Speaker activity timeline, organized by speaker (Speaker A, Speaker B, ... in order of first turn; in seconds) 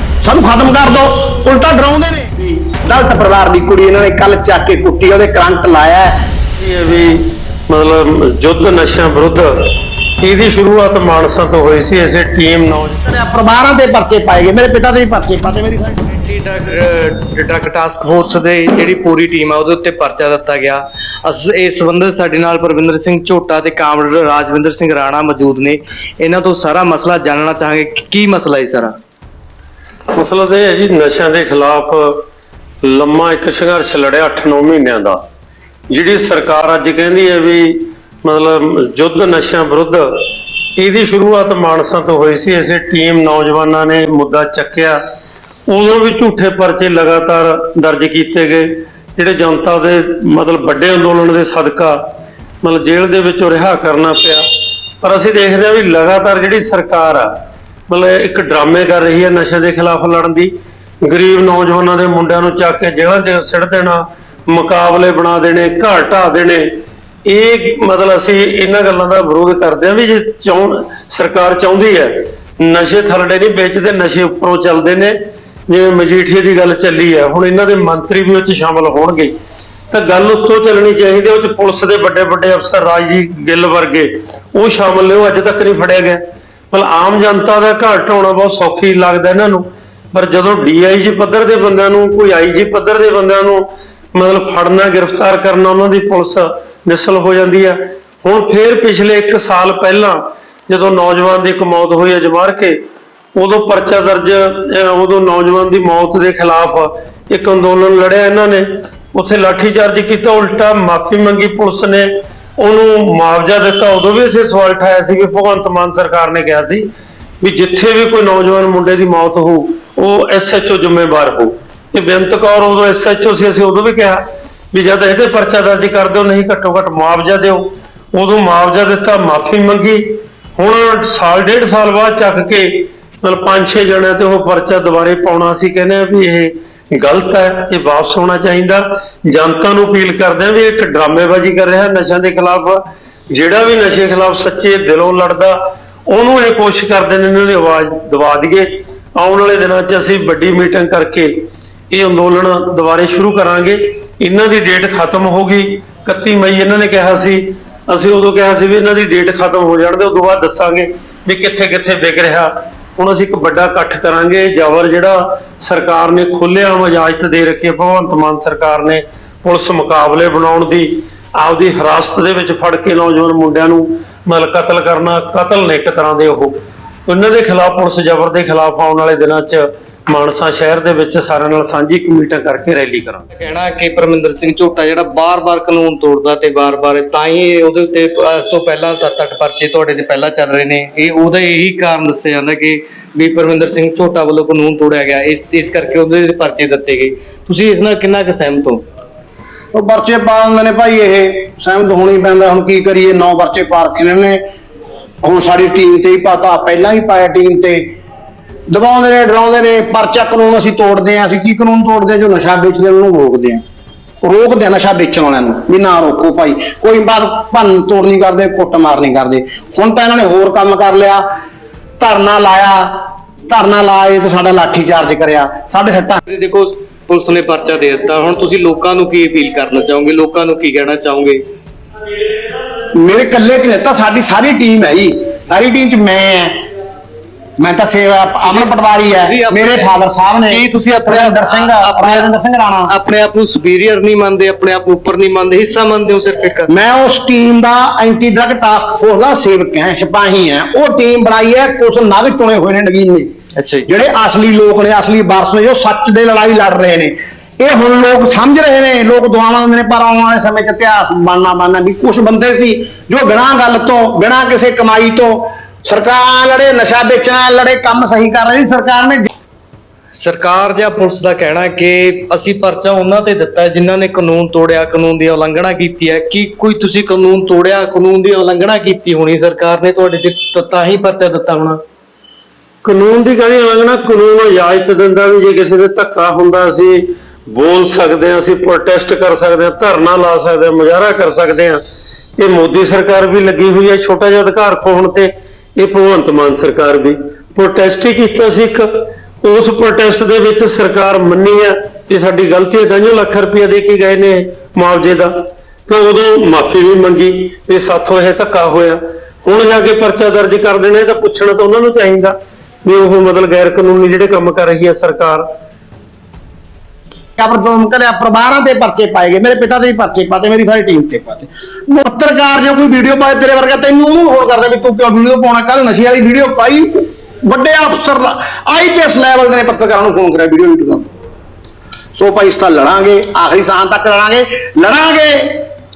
Speaker A: 0.2-6.1, 13.1-16.0, 199.7-204.4, 205.2-207.9, 208.7-213.6, 214.2-221.2, 222.0-226.2, 232.9-236.6, 237.6-242.9, 246.7-253.3, 253.9-269.3, 317.4-331.1, 332.1-335.6
Speaker B: 6.6-13.0, 30.1-32.2, 32.8-35.2, 35.9-40.3, 40.8-45.0, 45.7-52.0, 52.6-54.5, 55.0-57.3, 57.9-60.5, 61.0-66.6, 67.2-75.1, 75.7-79.3, 79.9-93.6, 94.1-100.2, 100.7-102.8, 103.4-116.9, 117.4-124.2, 124.7-142.8, 143.3-145.6, 146.1-151.3, 151.9-183.3, 282.8-291.8, 292.4-305.4, 305.9-315.4
Speaker C: 16.1-28.9, 183.3-198.8, 226.3-231.4, 238.4-239.9, 240.5-242.2, 242.9-246.7, 253.6-253.9, 270.1-281.8